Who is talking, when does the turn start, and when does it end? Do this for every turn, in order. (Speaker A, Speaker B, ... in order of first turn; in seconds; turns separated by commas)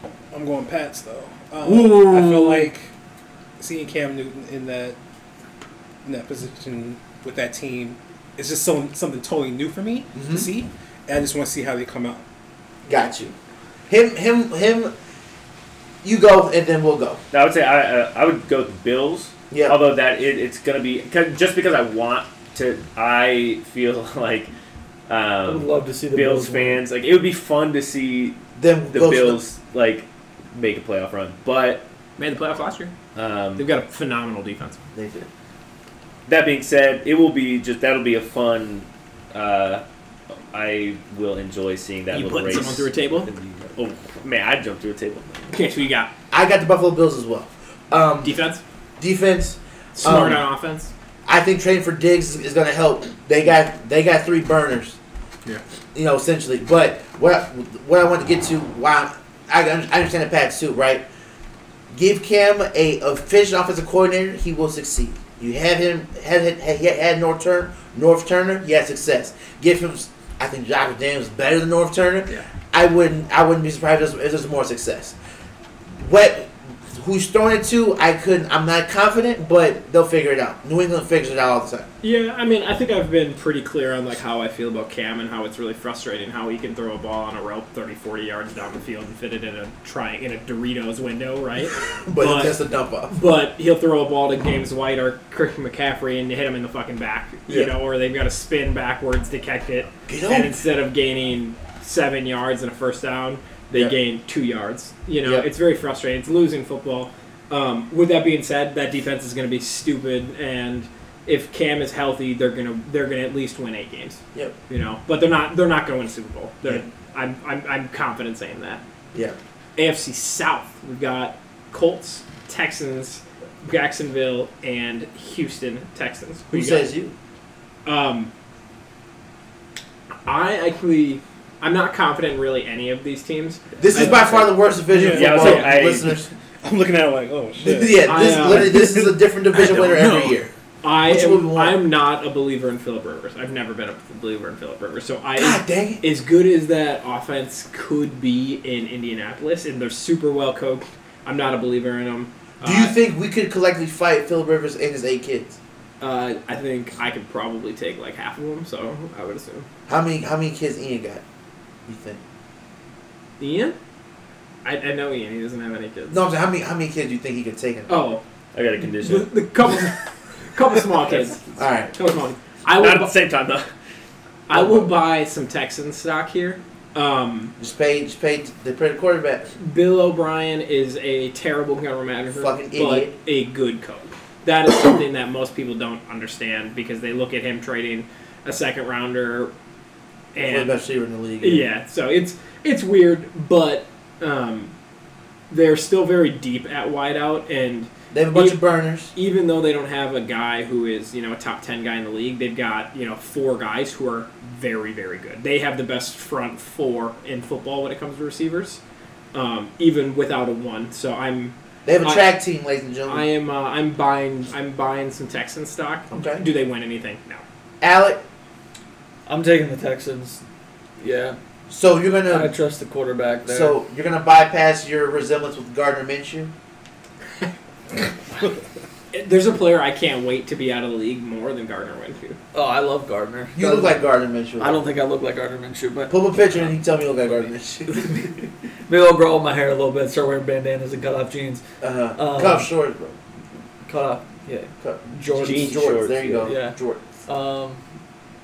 Speaker A: 0.3-2.9, Speaker B: 1.6-2.3, Speaker A: 3.6-5.0, Speaker A: 6.0-12.2, Speaker B: 10.1-10.5, Speaker B: 12.9-13.3, Speaker B: 13.9-14.9, Speaker B: 16.0-17.2, Speaker C: 17.3-24.5, Speaker B: 19.5-19.8, Speaker C: 25.1-28.4, Speaker D: 25.4-26.8, Speaker B: 28.6-29.4, Speaker C: 28.9-31.9, Speaker E: 32.2-32.9, Speaker C: 33.1-33.7, Speaker E: 33.6-34.8, Speaker B: 34.9-35.3, Speaker C: 36.2-39.8, Speaker C: 40.5-45.5, Speaker E: 42.1-43.3, Speaker E: 45.5-46.1, Speaker B: 46.3-48.4, Speaker E: 48.2-48.6, Speaker B: 49.0-50.5, Speaker E: 50.0-50.9, Speaker B: 51.2-55.0, Speaker B: 55.9-61.0, Speaker B: 61.9-75.2, Speaker B: 75.9-81.9, Speaker E: 82.0-92.5, Speaker B: 91.9-93.2, Speaker E: 93.1-118.8, Speaker B: 100.1-100.6, Speaker B: 105.2-105.5, Speaker E: 119.8-126.9, Speaker B: 126.5-127.1, Speaker E: 127.8-128.3, Speaker E: 130.2-134.5, Speaker B: 133.8-136.3, Speaker A: 134.9-135.6, Speaker C: 135.1-136.1, Speaker E: 135.4-135.7, Speaker A: 136.6-140.4, Speaker B: 137.6-140.5, Speaker E: 138.1-138.8, Speaker E: 140.8-153.0, Speaker B: 141.0-141.8, Speaker B: 145.3-146.0, Speaker B: 152.6-155.6, Speaker E: 156.0-159.7, Speaker B: 159.9-161.2, Speaker B: 161.8-162.2, Speaker E: 163.4-163.8, Speaker E: 164.6-166.2, Speaker B: 166.1-168.1, Speaker E: 167.9-168.2, Speaker C: 168.5-169.3, Speaker E: 169.0-171.4, Speaker B: 171.6-171.9, Speaker E: 171.9-173.1, Speaker C: 172.8-173.7, Speaker E: 174.5-177.5, Speaker B: 174.5-174.9, Speaker B: 177.6-179.5, Speaker E: 179.6-189.5, Speaker B: 182.3-183.1, Speaker E: 190.3-190.8, Speaker B: 190.3-191.7, Speaker E: 191.4-194.7, Speaker E: 195.5-198.6, Speaker B: 198.1-199.1, Speaker E: 199.1-208.8, Speaker E: 209.3-212.3, Speaker B: 211.8-213.2, Speaker E: 213.1-217.4, Speaker B: 216.1-216.4, Speaker B: 217.8-218.2, Speaker D: 219.3-220.4, Speaker D: 221.0-221.4, Speaker B: 221.7-222.5, Speaker D: 222.3-223.8, Speaker B: 223.4-226.5, Speaker E: 229.1-232.4, Speaker D: 232.5-233.9, Speaker B: 233.6-234.9, Speaker D: 234.6-236.2, Speaker B: 236.1-238.3, Speaker D: 237.9-241.6, Speaker B: 241.8-243.2, Speaker D: 242.2-242.7, Speaker D: 243.8-247.8, Speaker B: 244.8-247.1, Speaker C: 245.3-246.5